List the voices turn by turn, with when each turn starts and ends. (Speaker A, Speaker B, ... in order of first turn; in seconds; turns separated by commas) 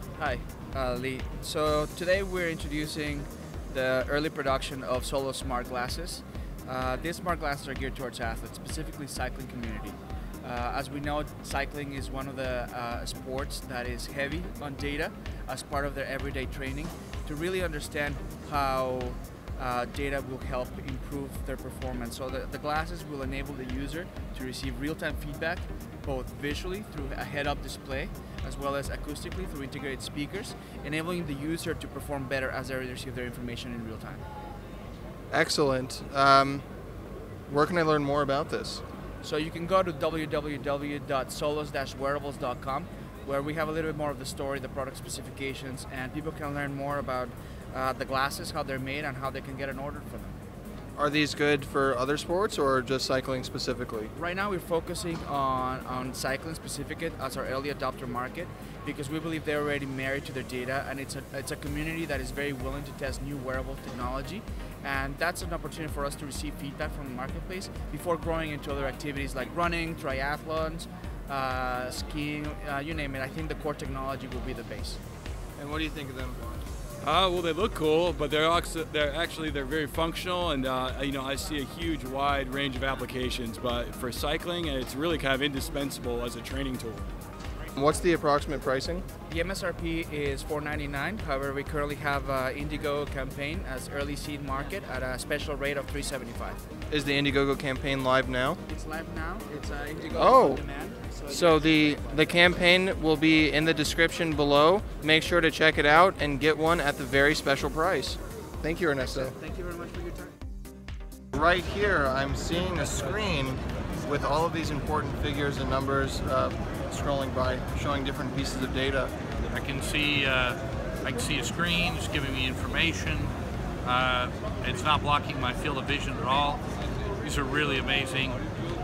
Speaker A: 0.2-34.2, Speaker B: 35.3-36.6, Speaker B: 37.5-38.8, Speaker A: 39.2-50.4, Speaker B: 51.0-54.1, Speaker A: 54.1-75.0, Speaker B: 75.6-76.4, Speaker C: 77.0-87.1, Speaker B: 87.7-89.0, Speaker A: 89.3-96.6, Speaker B: 96.9-98.6, Speaker A: 98.7-101.7, Speaker B: 100.1-100.6, Speaker B: 101.3-109.3, Speaker A: 109.0-110.3, Speaker B: 111.3-119.1, Speaker D: 119.5-126.6, Speaker D: 127.2-128.4